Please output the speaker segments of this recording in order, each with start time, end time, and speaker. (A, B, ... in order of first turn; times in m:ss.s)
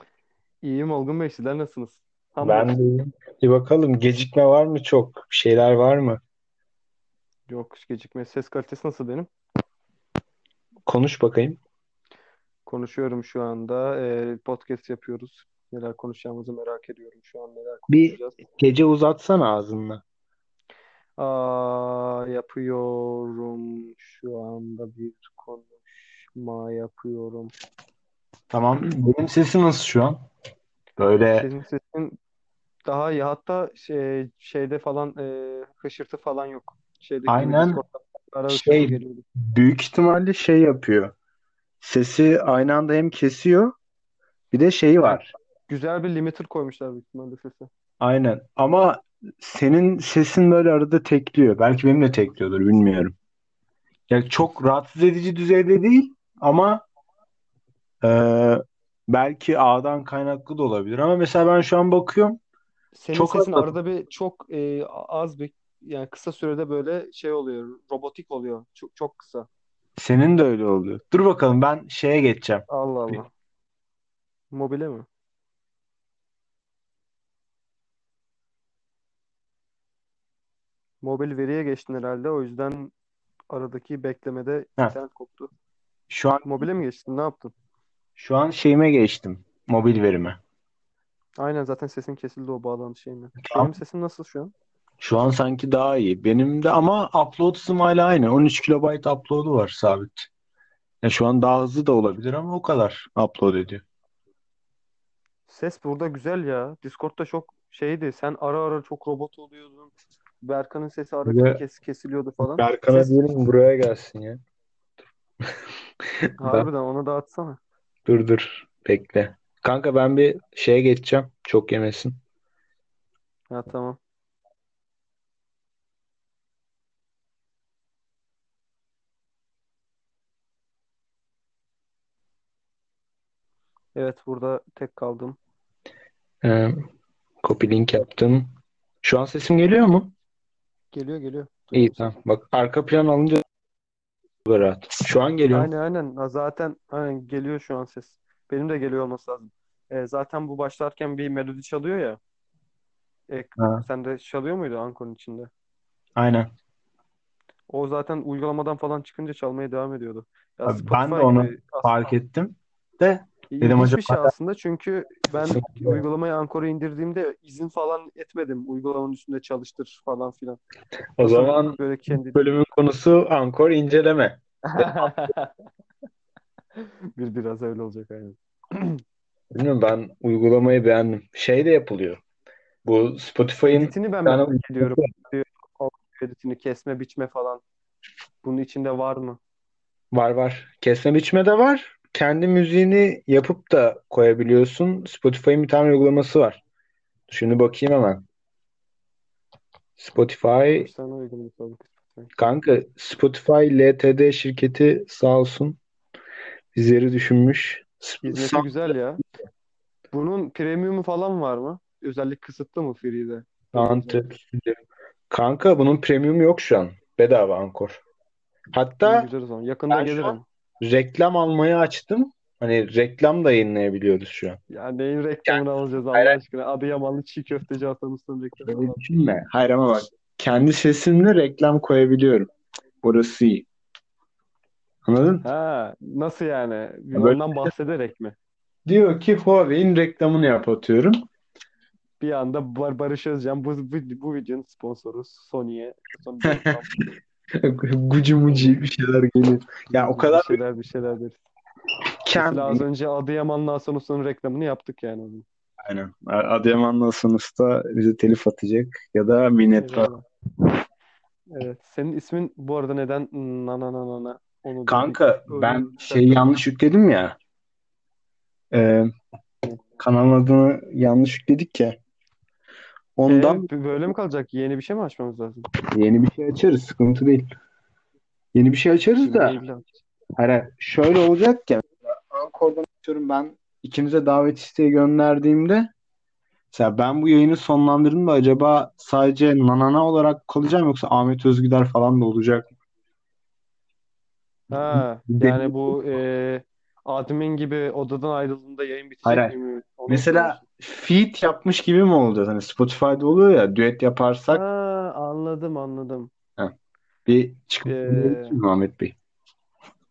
0:00.6-0:02.8 A
0:02.4-0:06.2 B
0:07.5-0:09.3 A
0:10.9-0:11.6 B
0:12.6-0:18.4 A
0:17.9-0:20.0 B
0:21.2-0:27.5 A
0:28.5-0:30.2 B
0:31.0-0:31.5 B
0:31.4-0:32.2 A
0:32.8-0:39.2 A
0:37.3-0:37.8 B
0:38.5-0:41.1 B
0:41.8-0:43.7 B
0:44.5-0:45.3 B
0:45.0-0:47.7 A
0:48.0-0:53.1 B
0:54.1-0:56.8 B
0:58.0-1:02.4 B
1:02.9-1:09.5 A
1:03.1-1:03.7 B
1:10.0-1:13.2 B
1:12.7-1:13.3 A
1:14.5-1:15.1 A
1:21.0-1:22.9 A
1:23.5-1:25.5 A
1:26.1-1:26.6 B
1:26.4-1:27.5 A
1:28.2-1:30.4 B
1:31.4-1:34.5 A
1:33.4-1:33.7 B
1:35.0-1:40.3 B
1:41.0-1:43.8 B
1:45.5-1:49.9 A
1:50.4-1:53.1 A
1:51.2-1:51.6 B
1:52.5-1:54.4 B
1:56.4-1:57.6 A
1:58.0-2:02.2 B
2:03.5-2:04.0 A
2:13.9-2:15.4 A
2:16.4-2:16.8 B
2:17.4-2:18.5 B
2:19.0-2:20.1 B
2:20.9-2:22.1 A
2:21.7-2:23.4 B
2:24.4-2:25.7 B
2:25.5-2:32.2 A
2:33.3-2:35.5 A
2:33.6-2:33.8 B
2:36.2-2:36.5 B
2:37.7-2:42.1 A
2:40.6-2:44.3 B
2:43.5-2:50.6 A
2:45.4-2:46.0 B
2:51.2-2:51.8 B
2:51.2-2:52.5 A
2:52.3-2:55.0 B
2:54.7-2:55.5 A
2:56.8-2:59.0 A
2:59.5-3:02.2 B
3:02.8-3:05.1 B
3:03.7-3:07.6 A
3:08.4-3:09.4 A
3:10.1-3:16.6 B
3:17.3-3:18.2 B
3:20.0-3:20.9 B
3:20.7-3:22.3 A
3:22.4-3:25.8 B
3:26.7-3:28.9 B
3:28.2-3:29.2 A
3:30.1-3:34.2 A
3:33.7-3:34.8 B
3:35.3-3:38.0 B
3:38.7-3:39.3 B
3:39.0-3:40.4 A
3:39.9-3:44.6 B
3:44.7-3:49.0 A
3:45.4-3:46.4 B
3:48.6-3:52.5 B
3:53.0-3:53.7 B
3:55.0-3:55.4 B
3:55.4-3:58.4 A
3:57.1-3:57.7 B
3:58.8-4:01.2 B
4:02.2-4:06.9 A
4:06.4-4:06.8 B
4:07.6-4:10.6 B
4:08.5-4:08.8 A
4:09.9-4:11.4 A
4:12.2-4:12.8 B
4:12.3-4:15.4 A
4:15.8-4:20.1 B
4:19.8-4:20.2 A
4:21.5-4:26.5 A
4:24.9-4:27.4 B
4:28.7-4:29.1 B
4:30.0-4:32.0 B
4:33.2-4:33.7 B
4:33.2-4:35.7 A
4:35.9-4:37.4 B
4:38.5-4:39.6 B
4:39.2-4:39.9 A
4:40.4-4:45.9 B
4:46.7-4:52.7 B
4:54.7-5:00.6 A
4:54.7-4:56.0 B
4:59.2-4:59.6 B
5:00.1-5:04.6 B
5:04.5-5:06.3 A
5:07.2-5:09.2 B
5:07.8-5:08.6 A